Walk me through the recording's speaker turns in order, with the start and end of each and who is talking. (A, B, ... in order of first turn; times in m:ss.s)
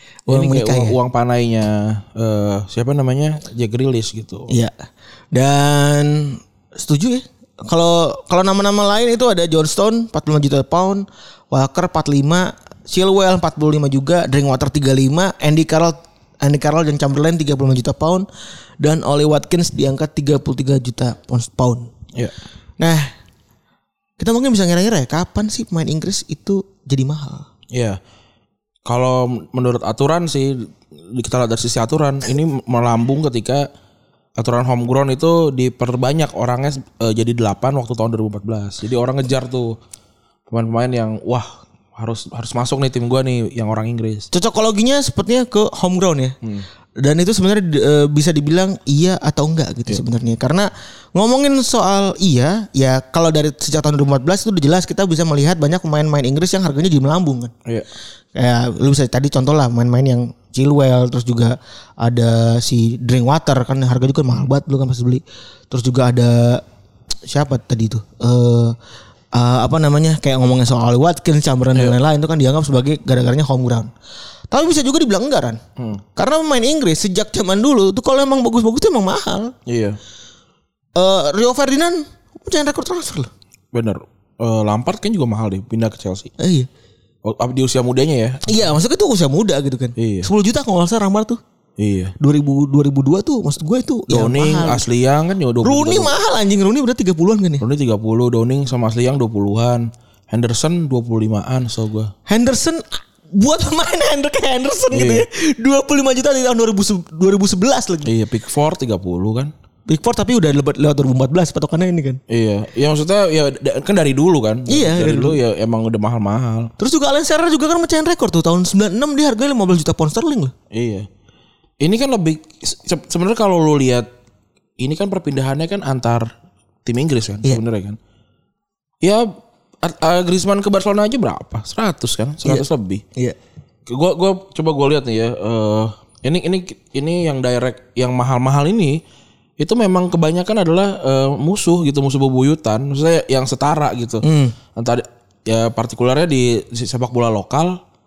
0:00.3-0:01.0 A
0:00.3-0:04.6 B
0:04.5-0:18.3 A
0:18.8-0:21.9 A
0:22.8-0:23.1 A
0:24.2-0:27.5 A
0:28.9-0:33.7 B
0:34.4-0:39.8 B
0:40.5-0:44.3 B
0:44.3-0:46.4 A
0:47.0-0:57.5 A
0:58.4-1:06.6 A
1:07.3-1:08.8 A
1:09.4-1:13.9 A
1:14.5-1:15.6 A
1:16.2-1:19.6 A
1:19.7-1:20.0 B
1:21.0-1:23.3 A
1:23.7-1:26.3 B
1:26.4-1:26.7 A
1:27.2-1:28.5 B
1:28.5-1:31.4 A
1:30.0-1:30.3 B
1:31.8-1:32.1 B
1:32.2-1:34.9 A
1:34.1-1:36.1 B
1:35.6-1:37.6 A
1:37.6-1:42.1 B
1:42.3-1:48.1 A
1:44.9-1:45.2 B
1:48.0-1:49.5 B
1:49.9-1:52.2 A
1:52.3-1:56.7 B
1:54.7-1:55.4 A
1:56.8-2:00.5 A
2:00.7-2:01.1 B
2:01.8-2:04.1 B
2:04.8-2:06.3 B
2:06.8-2:08.0 B
2:09.8-2:13.0 B
2:12.4-2:13.4 A
2:13.9-2:19.0 B
2:19.6-2:27.8 B
2:24.2-2:24.6 A